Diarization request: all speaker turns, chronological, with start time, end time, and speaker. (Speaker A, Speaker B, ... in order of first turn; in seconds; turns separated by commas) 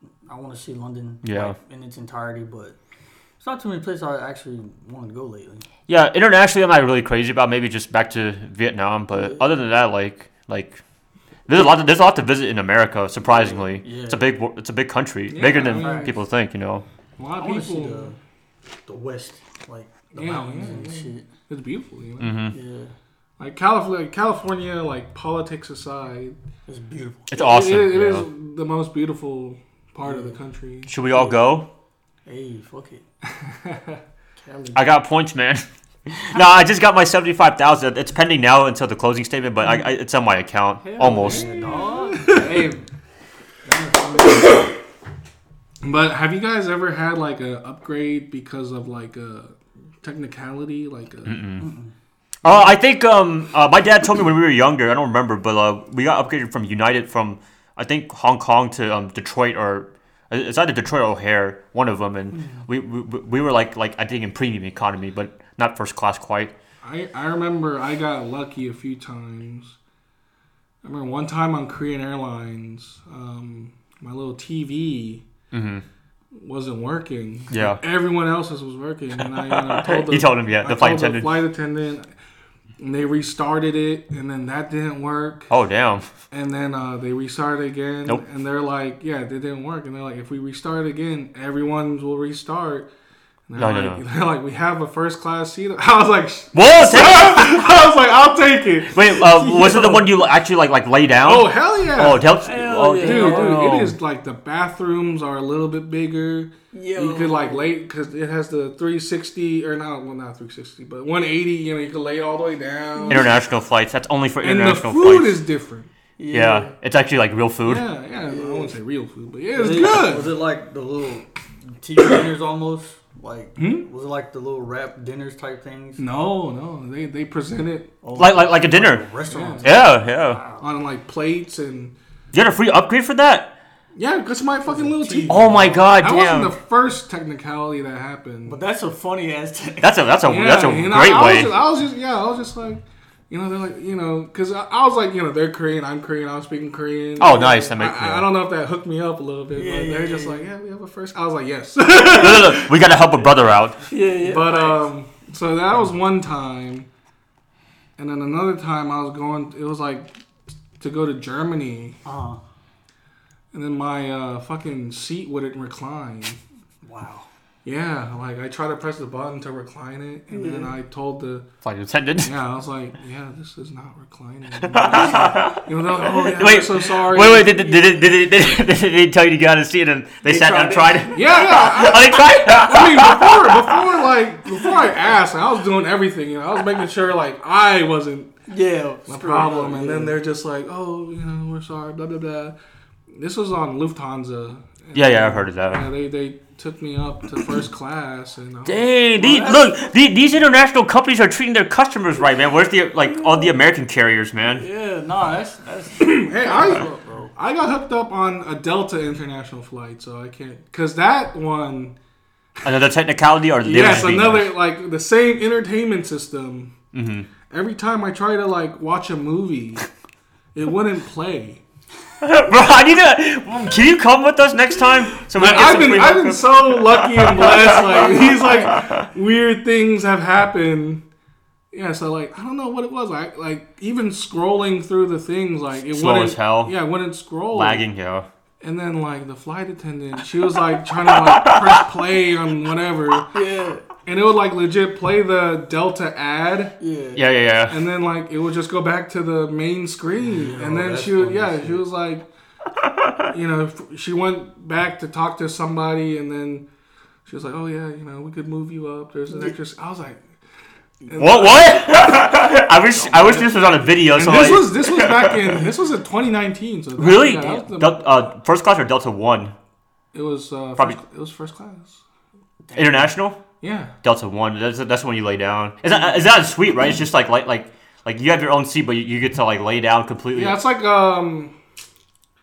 Speaker A: 0.2-2.8, Speaker B: 1.2-1.6, Speaker A: 3.4-5.7, Speaker B: 5.9-10.8, Speaker A: 9.1-9.5, Speaker B: 11.5-16.9, Speaker A: 13.3-14.2, Speaker C: 15.3-16.1, Speaker A: 15.8-16.1, Speaker C: 17.2-18.1, Speaker A: 17.4-18.2, Speaker A: 18.9-21.2, Speaker C: 20.1-22.4, Speaker B: 22.2-22.6, Speaker A: 22.5-22.9, Speaker C: 23.4-26.4, Speaker A: 26.7-27.3, Speaker B: 27.3-28.3, Speaker C: 27.4-30.9, Speaker A: 30.0-30.4, Speaker B: 30.9-31.7, Speaker A: 31.1-31.4, Speaker A: 32.2-33.0, Speaker C: 33.3-34.0, Speaker A: 34.4-34.8, Speaker B: 34.7-41.5, Speaker A: 40.8-42.9, Speaker C: 41.0-42.7, Speaker A: 43.6-44.7, Speaker C: 45.8-51.4, Speaker B: 51.2-51.7, Speaker A: 51.6-51.9, Speaker B: 52.4-66.5, Speaker A: 62.3-62.7, Speaker C: 66.8-69.8, Speaker C: 70.8-75.2, Speaker B: 75.5-75.8, Speaker C: 76.3-82.1, Speaker B: 77.5-77.8, Speaker B: 79.5-81.4, Speaker C: 82.8-85.5, Speaker B: 85.5-86.0, Speaker C: 86.3-92.9, Speaker C: 93.5-99.9, Speaker B: 93.6-94.0, Speaker B: 96.5-97.6, Speaker B: 98.9-104.0, Speaker A: 99.2-100.1, Speaker C: 101.2-102.3, Speaker A: 102.4-103.7, Speaker C: 103.0-113.4, Speaker A: 106.7-107.7, Speaker A: 113.0-113.3, Speaker B: 113.1-115.4, Speaker C: 114.4-115.9, Speaker A: 116.2-116.7, Speaker B: 116.3-117.8, Speaker C: 117.7-120.3, Speaker A: 118.2-118.7, Speaker A: 119.5-126.0, Speaker C: 123.6-123.9, Speaker C: 126.0-127.9, Speaker A: 128.0-130.7, Speaker B: 128.2-129.1, Speaker C: 129.3-129.7, Speaker B: 129.6-130.4, Speaker C: 130.6-131.9, Speaker B: 132.3-133.5, Speaker C: 133.9-138.6, Speaker A: 134.7-135.8, Speaker B: 135.3-136.5, Speaker A: 138.4-139.9, Speaker B: 139.8-141.5, Speaker C: 140.2-152.7, Speaker B: 147.2-148.2, Speaker A: 149.5-150.5, Speaker B: 152.0-153.8, Speaker A: 153.9-154.8, Speaker C: 154.2-156.9, Speaker C: 158.0-160.1, Speaker C: 160.8-162.0, Speaker A: 162.0-162.4, Speaker C: 163.5-166.4, Speaker A: 166.8-167.3, Speaker C: 167.6-171.4, Speaker A: 170.3-170.7, Speaker B: 171.6-172.3, Speaker C: 172.2-177.6, Speaker B: 174.6-183.7, Speaker A: 180.2-181.4, Speaker C: 181.1-188.3, Speaker A: 188.5-190.1, Speaker C: 189.1-192.6, Speaker C: 193.1-198.9, Speaker B: 194.9-195.8, Speaker B: 198.7-204.6, Speaker A: 199.2-199.7, Speaker A: 203.0-203.6, Speaker A: 204.4-207.3, Speaker C: 206.0-211.9, Speaker B: 212.6-214.5, Speaker C: 213.6-216.7, Speaker B: 216.9-217.3, Speaker C: 217.5-219.9, Speaker C: 220.5-221.6, Speaker B: 222.2-229.0, Speaker C: 225.3-231.0, Speaker C: 231.7-237.9, Speaker B: 235.9-236.7, Speaker B: 237.5-238.2, Speaker C: 238.6-243.3, Speaker B: 241.3-241.6, Speaker A: 243.3-243.9, Speaker C: 244.0-246.8, Speaker A: 246.8-247.2, Speaker B: 247.2-247.8, Speaker C: 247.7-252.2, Speaker A: 250.2-251.8, Speaker B: 252.8-253.2, Speaker C: 253.3-256.6, Speaker C: 257.2-260.2, Speaker C: 261.0-261.9, Speaker B: 261.1-265.5, Speaker A: 262.9-263.7, Speaker C: 264.1-268.1, Speaker B: 267.0-269.5, Speaker C: 270.1-272.0, Speaker A: 272.7-273.1, Speaker B: 272.7-273.4, Speaker C: 273.6-273.9, Speaker B: 274.0-280.6, Speaker C: 280.3-281.5